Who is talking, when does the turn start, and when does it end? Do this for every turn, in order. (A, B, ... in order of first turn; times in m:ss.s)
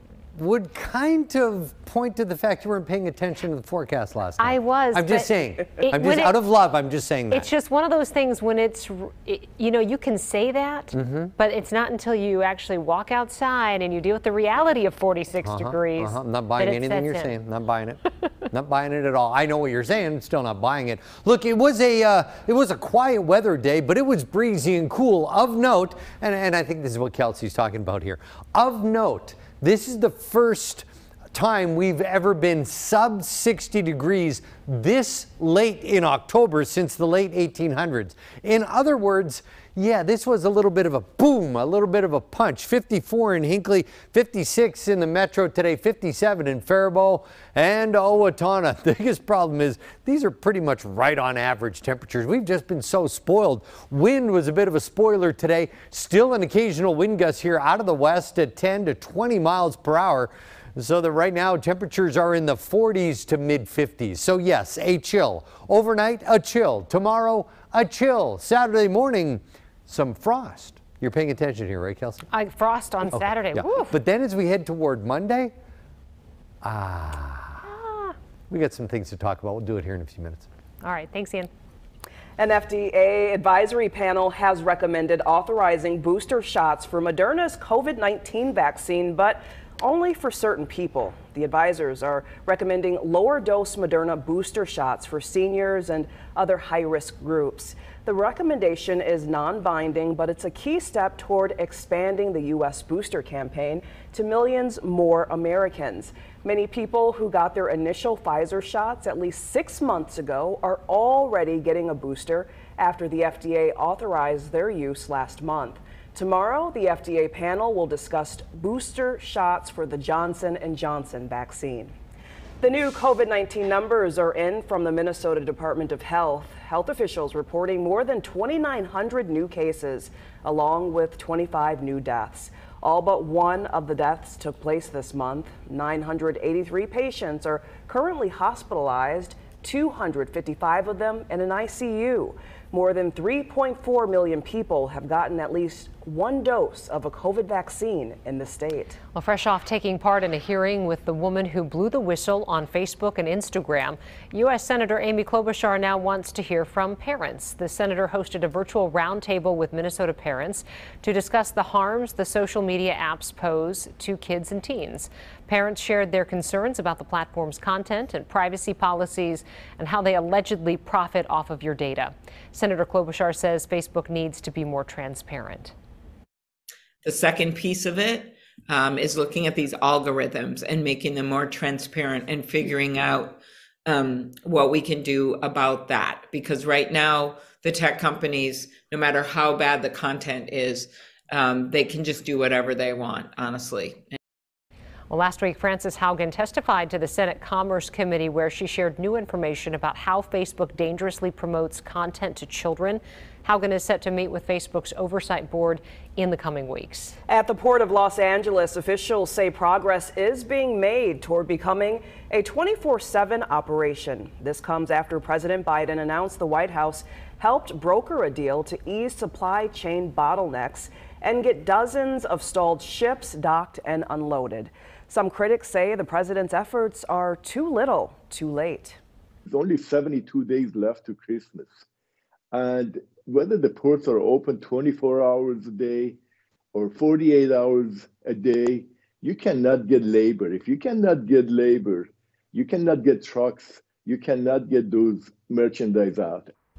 0:00.3-0:07.5 A
0:04.4-0:06.3 B
0:07.3-0:17.3 B
0:10.9-0:11.3 A
0:15.4-1:12.2 A
1:12.3-1:13.9 B
1:13.1-1:15.5 A
1:16.6-1:17.6 A
1:17.6-1:18.1 B
1:18.5-1:20.5 A
1:20.8-1:21.5 B
1:22.4-2:01.9 C
2:02.6-2:29.0 C
2:29.1-2:55.7 B
2:57.0-3:14.2 D
3:15.1-3:27.2 B
3:27.3-3:49.0 C
3:49.4-3:51.8 E
3:52.5-3:56.2 E
3:56.7-4:06.5 E